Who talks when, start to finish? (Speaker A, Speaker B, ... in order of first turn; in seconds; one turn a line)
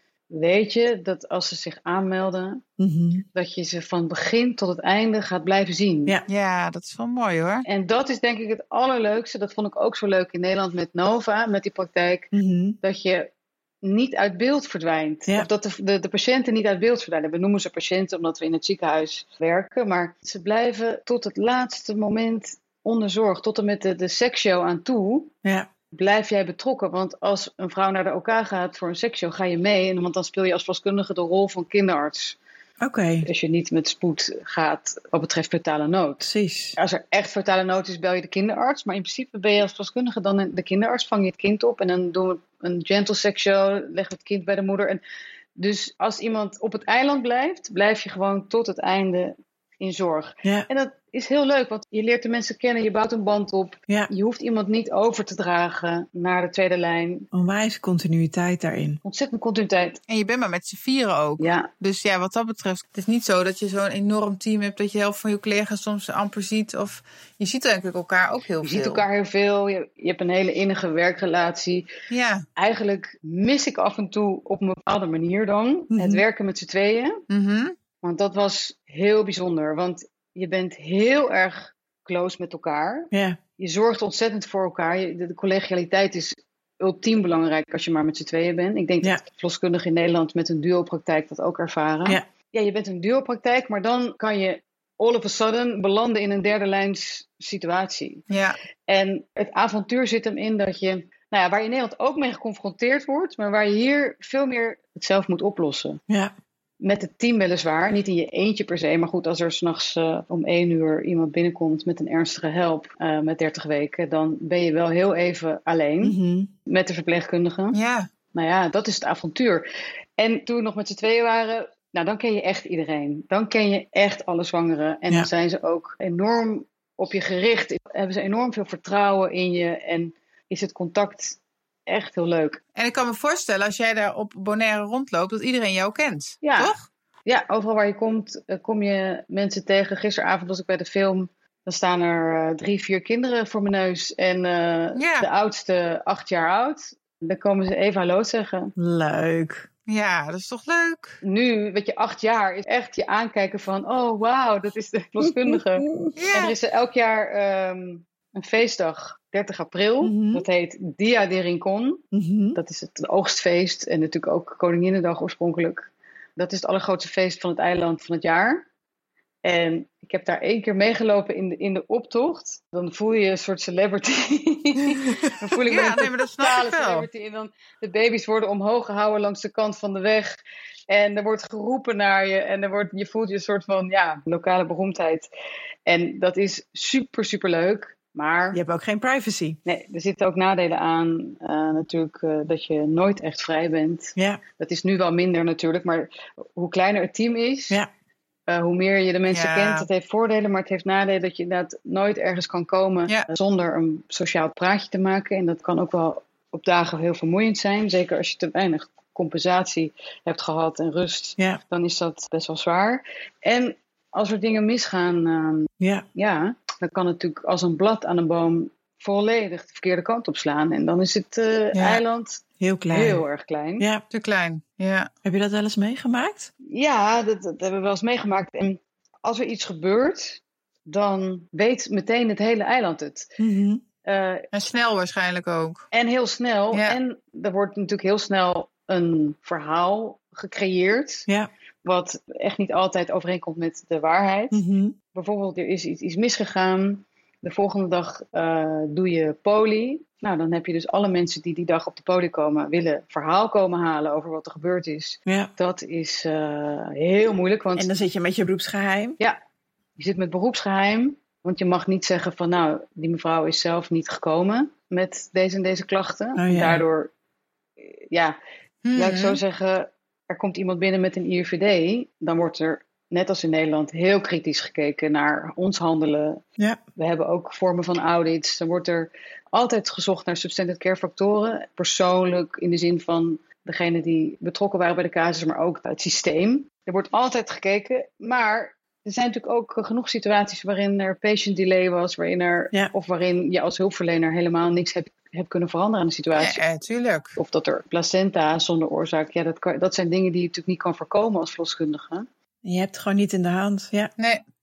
Speaker A: 0.3-2.6
Speaker B: 2.8-3.2
Speaker A: 3.3-6.2
Speaker C: 6.3-7.7
Speaker A: 7.7-12.3
Speaker B: 12.3-12.8
Speaker A: 12.8-13.3
Speaker A: 13.8-25.3
Speaker A: 25.9-32.4
Speaker B: 32.8-33.3
Speaker A: 33.2-45.0
Speaker B: 36.2-36.8
Speaker A: 45.6-57.3
Speaker B: 57.3-59.0
Speaker A: 59.0-60.0
Speaker C: 60.1-69.0
Speaker A: 61.4-61.7
Speaker A: 68.6-71.9
Speaker C: 72.1-72.4
Speaker A: 72.6-77.2
Speaker B: 75.9-76.2
Speaker C: 77.3-77.7
Speaker A: 78.0-98.3
Speaker B: 83.1-83.4
Speaker C: 98.3-98.6
Speaker A: 98.9-106.0
Speaker A: 106.8-117.8
Speaker B: 116.0-116.5
Speaker C: 117.7-118.1
Speaker A: 118.3-119.6
Speaker A: 120.2-132.6
Speaker C: 132.8-136.9
Speaker A: 136.4-136.7
Speaker A: 137.2-148.7
Speaker C: 144.9-145.3
Speaker B: 148.8-149.7
Speaker C: 149.9-151.2
Speaker A: 151.2-162.0
Speaker B: 155.2-156.2
Speaker C: 156.2-156.6
Speaker B: 160.0-160.5
Speaker B: 162.1-162.6
Speaker A: 162.6-168.6
Speaker A: 169.4-185.3
Speaker C: 175.6-177.1
Speaker A: 185.9-188.6
Speaker B: 188.5-189.6
Speaker A: 189.6-197.8
Speaker B: 194.2-194.4
Speaker A: 198.5-223.9
Speaker C: 199.3-199.9
Speaker B: 215.8-216.1
Speaker C: 221.7-222.0
Speaker B: 222.6-223.2
Speaker B: 223.8-224.0
Speaker C: 224.1-225.1
Speaker B: 225.2-226.5
Speaker A: 226.6-233.3
Speaker B: 233.4-233.8
Speaker A: 234.0-234.5
Speaker C: 234.5-235.8
Speaker A: 235.9-241.3
Speaker C: 236.7-237.0
Speaker A: 241.8-244.6
Speaker B: 244.5-245.0
Speaker A: 245.1-257.9
Speaker B: 255.2-255.5
Speaker B: 257.8-259.2
Speaker A: 260.0-267.1
Speaker B: 266.4-266.8
Speaker A: 267.8-268.4
Speaker C: 268.9-269.4
Speaker A: 269.0-276.4
Speaker A: 277.0-296.6
Speaker C: 296.4-297.4
Speaker A: 297.4-302.2
Speaker B: 302.6-304.1